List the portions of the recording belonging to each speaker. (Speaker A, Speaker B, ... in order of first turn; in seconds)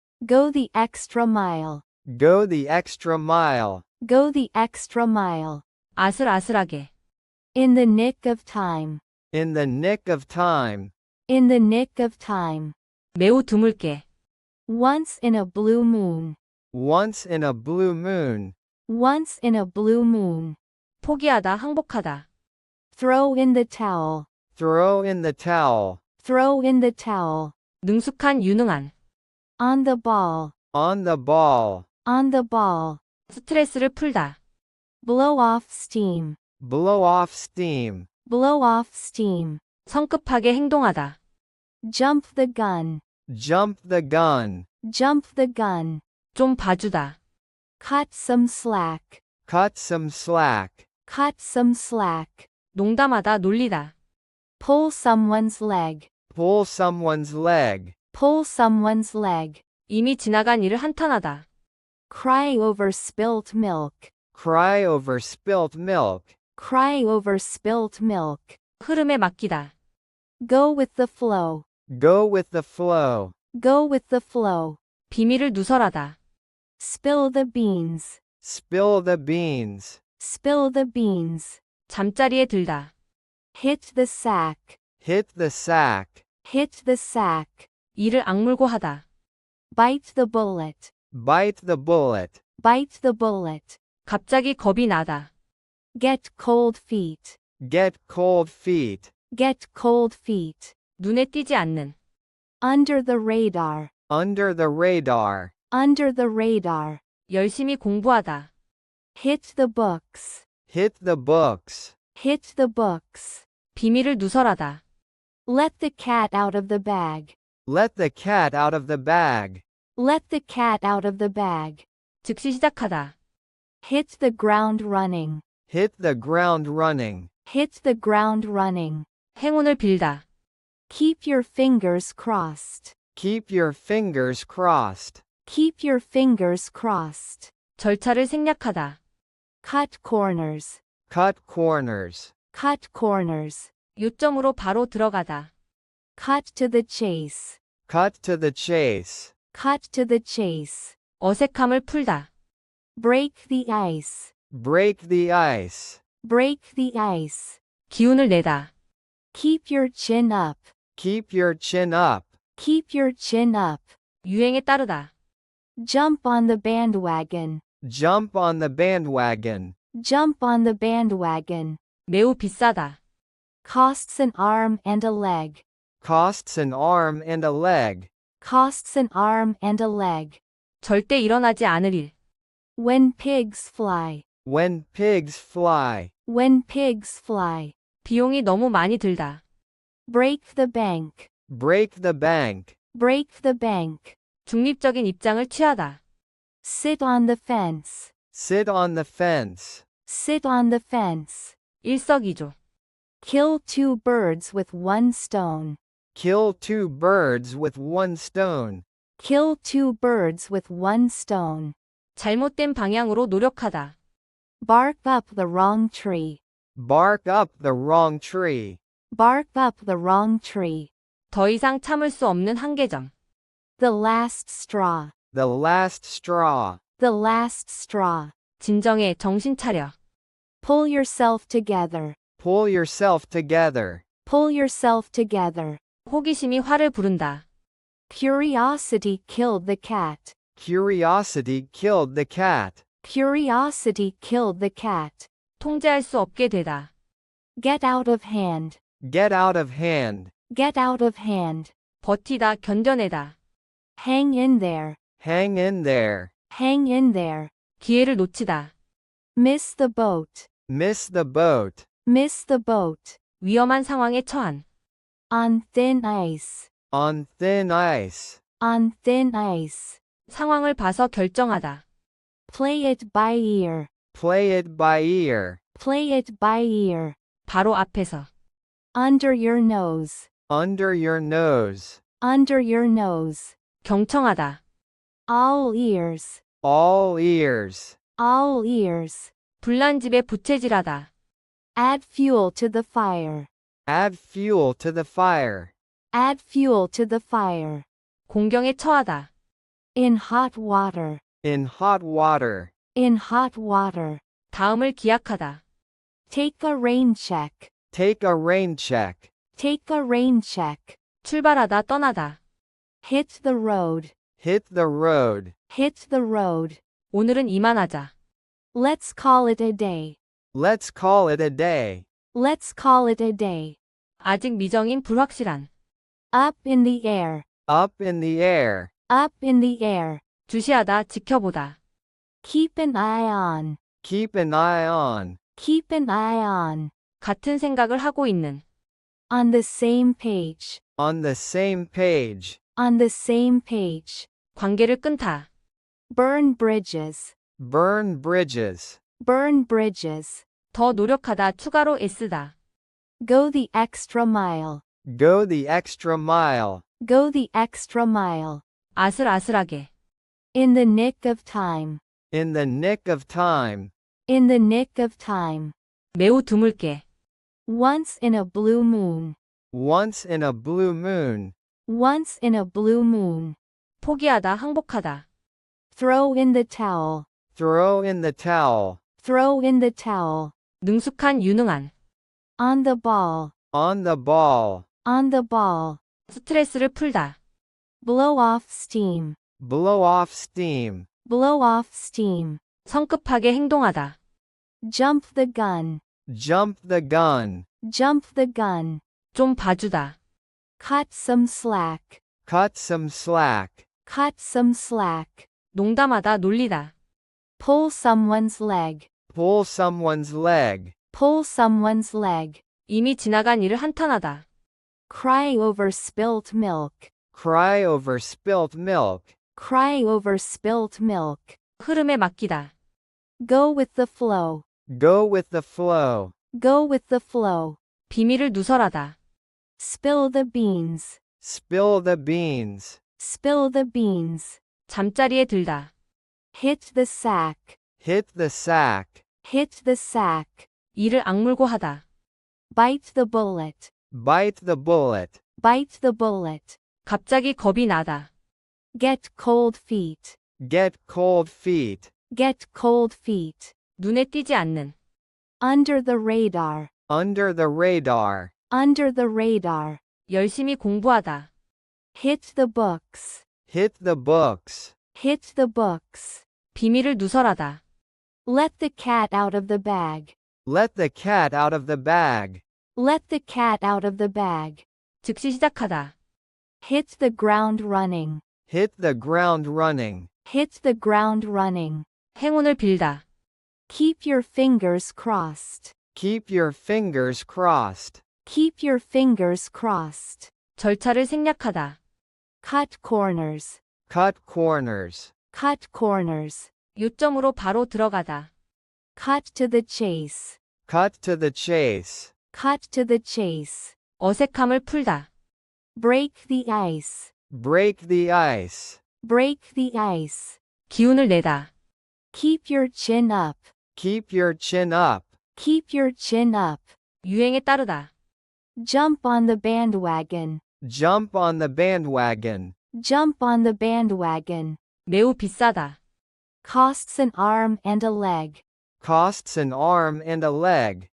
Speaker A: 0.2-1.8, 4.0-5.6, 7.5-9.0, 11.3-12.7, 14.7-16.4, 18.9-20.6, 22.9-24.3, 26.2-27.5, 29.6-30.5, 32.0-33.0, 35.0-36.4, 38.2-39.6, 41.8-43.0, 44.8-46.0, 47.8-49.2, 51.0-52.5, 54.6-56.1, 58.1-59.6, 62.1-64.1, 66.5-68.6, 70.4-71.6, 73.5-74.8, 76.8-78.2, 80.2-81.6, 83.5-84.8, 86.4-87.7, 89.7-90.9, 92.6-93.8, 95.9-97.4, 99.3-100.7, 102.6-103.9, 105.7-107.0, 109.1-110.4, 112.1-113.4, 115.5-117.3, 120.0-121.8, 123.8-125.4, 127.5-129.1, 130.9-132.9, 135.4-137.5, 139.6-140.8, 142.5-143.7, 146.2-147.6, 149.5-150.9, 152.9-154.3, 156.2-157.6, 159.3-160.7, 162.6-163.9, 165.8-167.6, 169.9-171.8, 173.6-175.6, 178.4-180.4, 182.8-184.2, 186.3-187.7, 190.1-191.3, 192.9-194.2, 196.6-198.1, 200.0-201.6, 203.2-205.8, 209.2-211.7, 214.6-216.4, 219.1-220.9, 223.8-225.1, 227.0-228.3, 230.6-232.2, 234.2-235.8, 238.1-240.3, 243.0-245.3, 247.6-248.8, 250.5-251.7, 254.0-255.0, 256.5-257.5, 259.4-260.5, 262.0-263.2, 265.3-266.7, 268.6-270.0, 272.5-273.9, 275.7-277.2, 278.9-280.3, 282.2-283.5, 285.3-286.4, 288.2-289.3, 291.8-293.5, 296.1-297.9, 299.9-301.2, 302.9-304.2, 306.3-307.7, 309.6-311.0, 313.0-314.1, 315.7-316.8, 318.7-320.2, 322.3-323.8, 326.3-327.4, 329.1-330.2, 332.4-333.8, 335.6-336.9, 339.3-340.8, 342.8-344.3, 346.1-347.3, 349.2-350.4, 353.2-354.8, 357.0-358.6, 360.5-362.0, 364.3-365.7, 367.6-369.4, 371.9-373.6, 375.9-377.2, 379.2-380.5, 382.6-383.5, 385.0-386.0, 388.0-389.4, 391.2-392.6, 394.8-396.0, 397.8-399.0, 400.8-402.2, 404.0-405.5, 407.6-409.1, 411.1-412.6, 415.1-417.1, 419.5-421.6, 423.4-424.6, 426.5-427.8, 429.8-431.2, 433.2-434.6, 436.5-437.8, 439.4-440.7, 442.7-443.9, 445.6-446.8, 448.9-450.4, 452.3-453.7, 455.6-456.9, 458.7-460.0, 462.1-463.4, 465.1-466.4, 468.4-470.3, 472.9-474.8, 476.8-478.4, 480.4-482.1, 483.9-485.9, 488.4-490.5, 492.6-493.8, 495.5-496.7, 499.1-500.6, 502.5-503.9, 505.9-507.3, 509.2-510.6, 512.3-513.7, 515.5-516.9, 518.8-520.6, 522.9-524.8, 526.6-528.6
Speaker B: 2.0-3.8, 9.3-10.9, 16.7-18.5, 24.6-26.0, 30.7-31.8, 36.6-38.1, 43.3-44.6, 49.5-50.8, 56.3-57.9, 64.3-66.3, 71.9-73.3, 78.4-80.0, 85.0-86.2, 91.1-92.4, 97.6-99.1, 104.1-105.5, 110.7-111.9, 117.7-119.6, 125.7-127.3, 133.2-135.2, 141.1-142.3, 147.9-149.3, 154.5-156.0, 161.0-162.3, 167.8-169.7, 176.0-178.1, 184.4-186.1, 191.5-192.7, 198.3-199.8, 206.1-208.8, 216.8-218.8, 225.3-226.8, 232.4-234.0, 240.6-242.8, 249.0-250.3, 255.2-256.3, 260.7-261.8, 266.9-268.4, 274.1-275.6, 280.5-282.0, 286.6-287.9, 293.9-295.7, 301.4-302.7, 307.9-309.3, 314.4-315.5, 320.5-322.0, 327.7-328.9, 334.0-335.4, 341.0-342.6, 347.6-349.0, 355.0-356.8, 362.3-363.9, 369.7-371.5, 377.6-379.0, 383.7-384.8, 389.6-391.1, 396.3-397.6, 402.4-403.8, 409.3-410.9, 417.3-419.3, 424.9-426.3, 431.4-433.0, 438.0-439.2, 444.1-445.4, 450.6-452.1, 457.1-458.5, 463.7-464.9, 470.6-472.6, 478.7-480.3, 486.1-488.2, 494.1-495.3, 500.9-502.3, 507.5-509.0, 514.0-515.3, 520.8-522.7, 529.0-531.1
Speaker C: 6.0-6.9, 13.1-14.0, 21.0-22.2, 27.8-28.9, 33.3-34.4, 39.9-41.2, 46.3-47.2, 52.7-53.9, 59.9-61.4, 68.8-69.7, 75.1-76.2, 81.9-82.9, 88.0-89.0, 94.0-95.3, 101.0-101.9, 107.3-108.5, 113.7-114.8, 122.2-123.1, 129.3-130.2, 137.8-139.0, 144.0-145.5, 151.2-152.3, 157.9-158.7, 164.2-165.1, 172.1-173.0, 180.8-182.1, 188.0-189.4, 194.4-196.0, 201.8-202.5, 212.2-213.9, 221.3-223.1, 228.6-229.9, 236.1-237.4, 245.6-246.9, 252.0-253.3, 257.8-258.7, 263.4-264.6, 270.3-271.8, 277.5-278.3, 283.8-284.6, 289.6-291.1, 298.3-299.3, 304.5-305.6, 311.2-312.4, 317.1-318.1, 324.2-325.7, 330.5-331.8, 337.2-338.6, 344.5-345.5, 350.7-352.5, 358.9-359.9, 366.1-367.0, 374.0-375.2, 380.8-381.9, 386.3-387.4, 392.9-394.1, 399.3-400.1, 405.7-406.9, 412.9-414.4, 421.8-422.7, 428.1-429.1, 434.9-435.9, 440.9-442.0, 447.0-448.3, 454.0-454.9, 460.3-461.5, 466.7-467.8, 475.2-476.1, 482.4-483.2, 490.8-492.0, 496.9-498.5, 504.2-505.3, 510.9-511.7, 517.2-518.1, 525.1-526.0